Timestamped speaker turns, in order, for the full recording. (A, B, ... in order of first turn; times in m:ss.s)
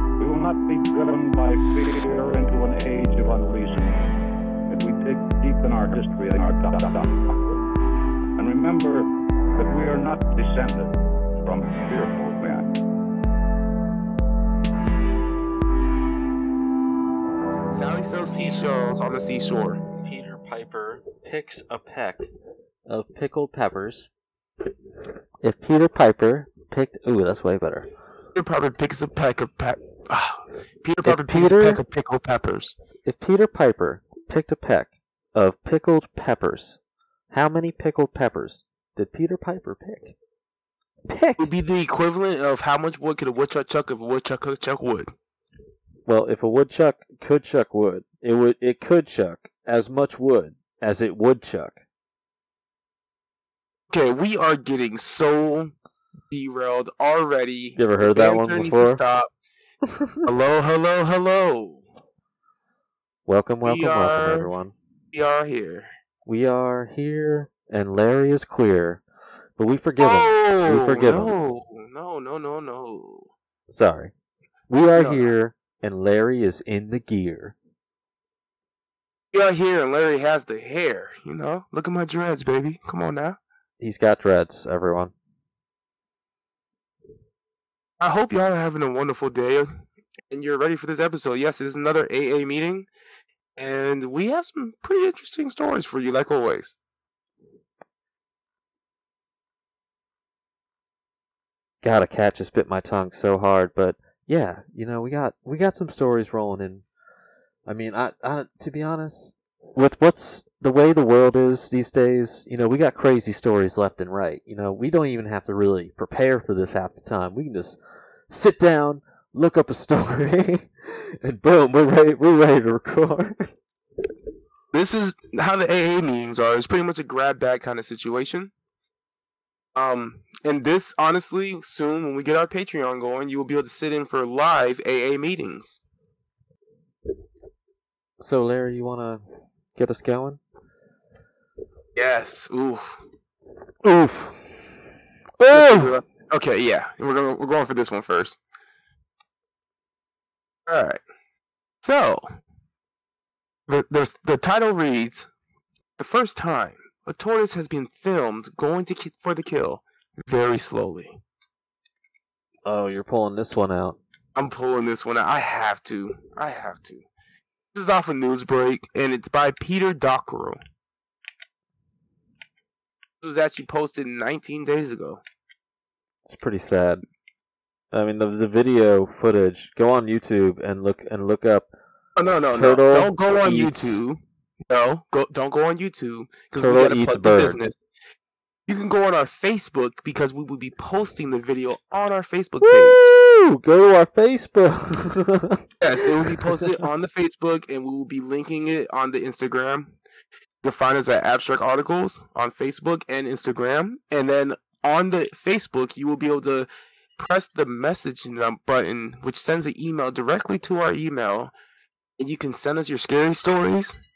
0:00.2-0:04.0 A
0:04.7-0:07.6 A
0:08.4-0:09.0 A
0:09.6-0:12.7 A
0:17.7-0:19.8 B
0:20.0-0:22.3 C
0:22.9-0:24.1 C
0:25.4-0:27.9 C
0:28.4-0:32.8 B
0:31.0-0:31.8 C
0:33.0-0:36.8 C
0:37.3-0:40.1 C
0:41.1-0:41.5 C
0:41.4-0:45.1 B
0:46.1-0:51.8 C
0:53.9-0:55.7 B
0:56.3-0:59.3 B
0:57.8-0:59.0 C
0:59.9-1:00.3 C
1:00.2-1:01.8 B
1:03.3-1:04.7 C
1:03.6-1:04.5 B
1:05.1-1:05.9 B
1:06.3-1:09.0 C
1:09.6-1:11.3 C
1:10.0-1:13.3 B
1:13.7-1:14.1 C
1:14.7-1:17.6 C
1:15.0-1:15.3 B
1:19.3-1:23.4 B
1:23.8-1:25.1 C
1:28.0-1:29.7 B
1:30.3-1:32.9 B
1:33.6-1:36.8 B
1:41.8-1:46.8 C
1:47.7-1:57.8 C
1:58.3-2:03.5 C
2:04.7-2:08.5 B
2:09.8-2:15.8 B
2:18.2-2:19.2 C
2:19.8-2:20.4 C
2:22.0-2:23.0 B
2:23.8-2:24.8 C
2:25.4-2:26.0 C
2:25.5-2:28.4 B
2:30.7-2:31.0 B
2:31.8-2:32.3 B
2:33.7-2:35.3 B
2:36.0-2:41.2 B
2:42.6-2:44.0 C
2:44.4-2:47.0 B
2:47.7-2:50.6 B
2:53.2-2:55.2 B
2:56.2-2:57.0 C
2:57.9-3:01.7 C
3:02.2-3:07.8 B
3:02.5-3:04.0 C
3:06.6-3:07.6 C
3:08.7-3:13.0 B
3:12.6-3:15.6 C
3:15.8-3:19.9 B
3:16.2-3:16.5 C
3:20.6-3:31.5 B
3:32.2-3:34.0 B